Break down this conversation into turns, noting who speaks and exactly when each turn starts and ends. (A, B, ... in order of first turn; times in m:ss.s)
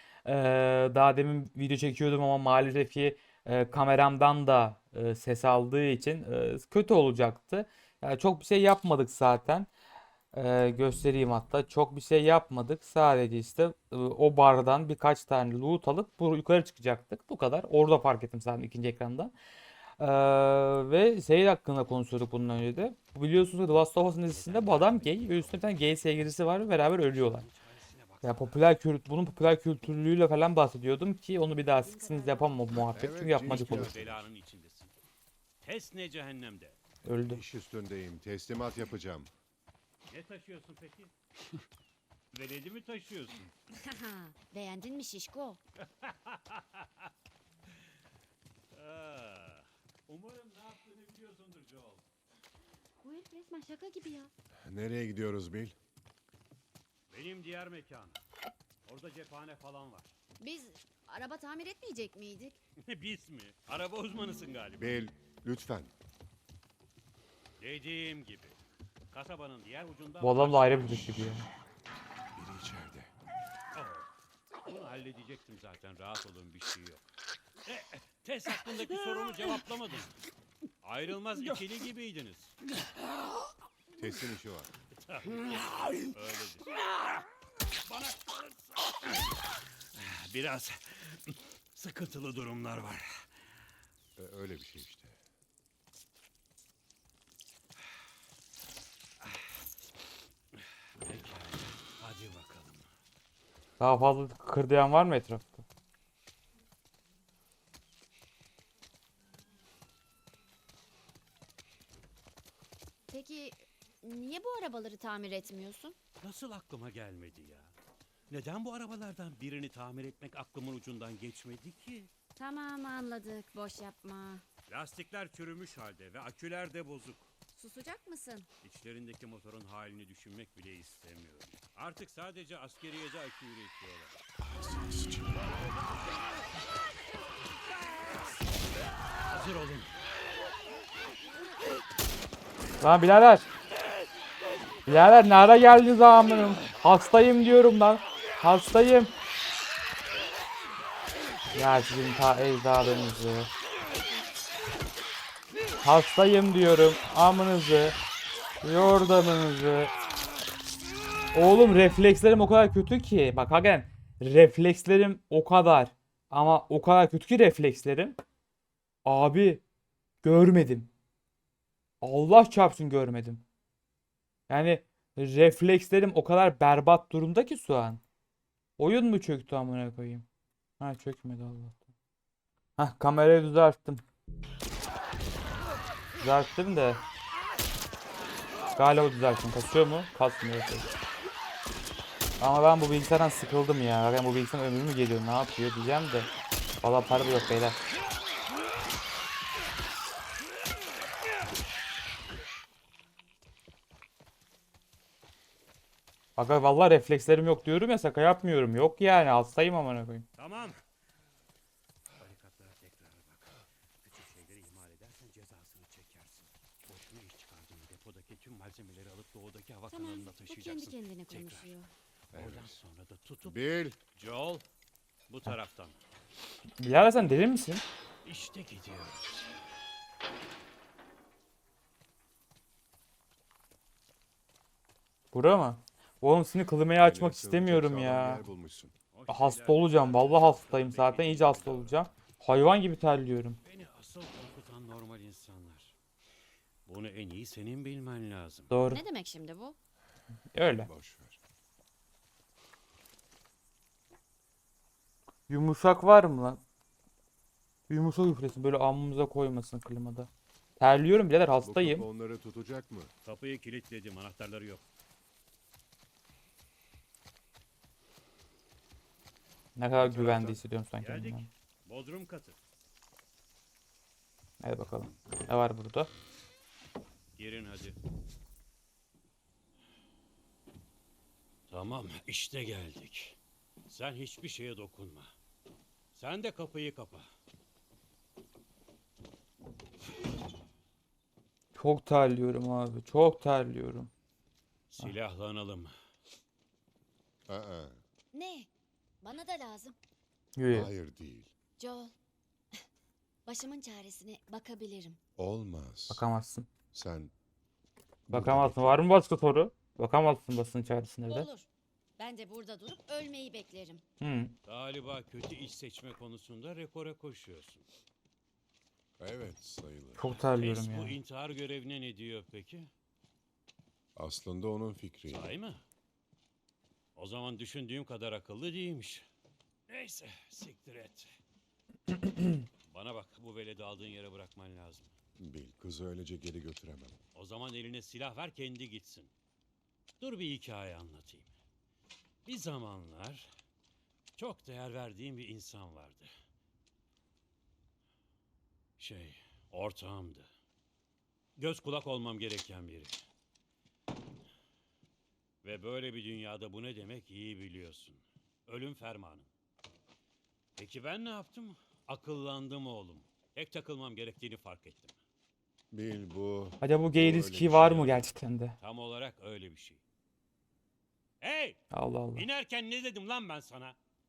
0:00.2-0:09.7 A
0:10.3-0:19.3 A
0:20.0-0:27.4 A
0:24.0-0:26.0 B
0:27.0-0:28.6 B
0:28.2-0:33.9 A
0:31.8-0:32.6 C
0:32.8-0:34.3 D
0:33.4-0:34.9 B
0:35.6-0:36.8 B
0:37.0-0:37.4 A
0:37.3-0:39.3 D
0:40.1-0:41.1 B
0:42.3-0:43.4 B
0:43.7-0:45.6 C
0:45.8-0:47.1 B
0:48.7-0:52.0 B
0:53.0-0:54.3 C
0:54.6-0:55.8 D
0:57.1-0:58.2 B
0:58.8-1:00.1 B
1:00.4-1:02.6 C
1:02.8-1:05.0 B
1:04.8-1:05.9 D
1:07.6-1:08.6 B
1:09.1-1:11.4 B
1:10.2-1:11.5 A
1:12.4-1:13.1 D
1:13.7-1:14.1 B
1:14.6-1:17.0 B
1:17.6-1:20.2 B
1:20.8-1:22.5 B
1:24.0-1:24.7 D
1:25.1-1:26.7 B
1:27.7-1:33.2 B
1:34.2-1:35.2 D
1:40.6-1:42.9 B
1:43.8-1:45.6 A
1:53.1-1:56.0 C
1:56.2-1:57.7 B
1:58.3-2:02.1 B
2:02.4-2:04.4 C
2:04.7-2:07.3 B
2:07.5-2:08.5 C
2:08.6-2:14.2 B
2:14.4-2:15.5 D
2:19.2-2:19.9 B
2:22.8-2:23.4 A
2:24.8-2:29.1 A
2:31.5-2:33.5 A
2:35.8-2:38.0 A
2:38.6-2:39.9 A
2:41.3-2:48.2 A
2:49.0-2:49.6 A
2:50.2-2:50.9 A
2:52.0-2:53.4 A
2:54.5-2:58.0 A
2:58.8-3:00.2 A
3:00.8-3:01.9 A
3:02.8-3:04.0 A
3:06.2-3:07.0 A
3:08.8-3:10.9 A
3:12.4-3:16.3 A
3:16.8-3:17.8 A
3:26.4-3:30.2 A
3:30.4-3:30.8 B
3:32.2-3:41.7 B
3:39.9-3:41.9 C
3:42.3-3:42.8 D
3:42.3-3:43.6 B
3:43.4-3:44.0 D
3:44.1-3:44.6 B
3:45.3-3:46.0 B
3:46.8-3:47.8 A
3:48.2-3:49.2 B
3:55.3-3:58.4 A
3:57.0-3:58.9 D
3:59.1-4:02.0 B
3:59.3-4:03.6 A
4:03.6-4:05.9 B
4:06.8-4:08.7 B
4:08.7-4:09.0 A
4:08.8-4:09.8 C
4:10.5-4:10.9 A
4:10.7-4:11.4 D
4:15.5-4:16.6 A
4:17.9-4:22.0 A
4:21.6-4:23.1 D
4:23.2-4:24.8 B
4:29.8-4:31.5 A
4:30.1-4:30.5 D
4:30.1-4:32.6 B
4:34.6-4:36.1 A
4:37.4-4:38.0 B
4:41.7-4:45.3 B
4:46.1-4:47.3 B
4:51.7-4:54.1 A
4:54.9-4:55.9 B
4:57.5-4:58.0 D
4:58.3-4:58.7 C
4:59.2-5:00.0 C
5:00.6-5:00.9 A
5:00.7-5:01.5 D
5:01.8-5:02.1 C
5:03.4-5:05.2 C
5:05.4-5:06.2 D
5:06.1-5:06.7 A
5:06.9-5:07.3 D
5:08.3-5:09.0 D
5:08.3-5:11.5 A
5:11.3-5:14.0 C
5:14.2-5:14.5 A
5:14.6-5:17.8 B
5:19.2-5:20.2 D
5:20.2-5:21.2 A
5:20.3-5:22.9 B
5:24.2-5:25.4 D
5:25.3-5:25.8 B
5:27.2-5:29.2 B
5:29.9-5:31.3 B
5:32.8-5:35.1 B
5:35.4-5:37.2 D
5:37.3-5:39.3 B
5:40.2-5:41.5 B
5:42.4-5:43.5 B
5:44.4-5:46.3 B
5:49.0-5:50.5 B
5:51.6-5:53.2 B
5:55.6-5:59.5 B
6:00.8-6:05.2 B
6:05.9-6:08.2 D
6:06.8-6:08.8 A
6:08.8-6:10.0 B
6:11.4-6:11.8 B
6:11.9-6:12.5 A
6:12.3-6:14.0 B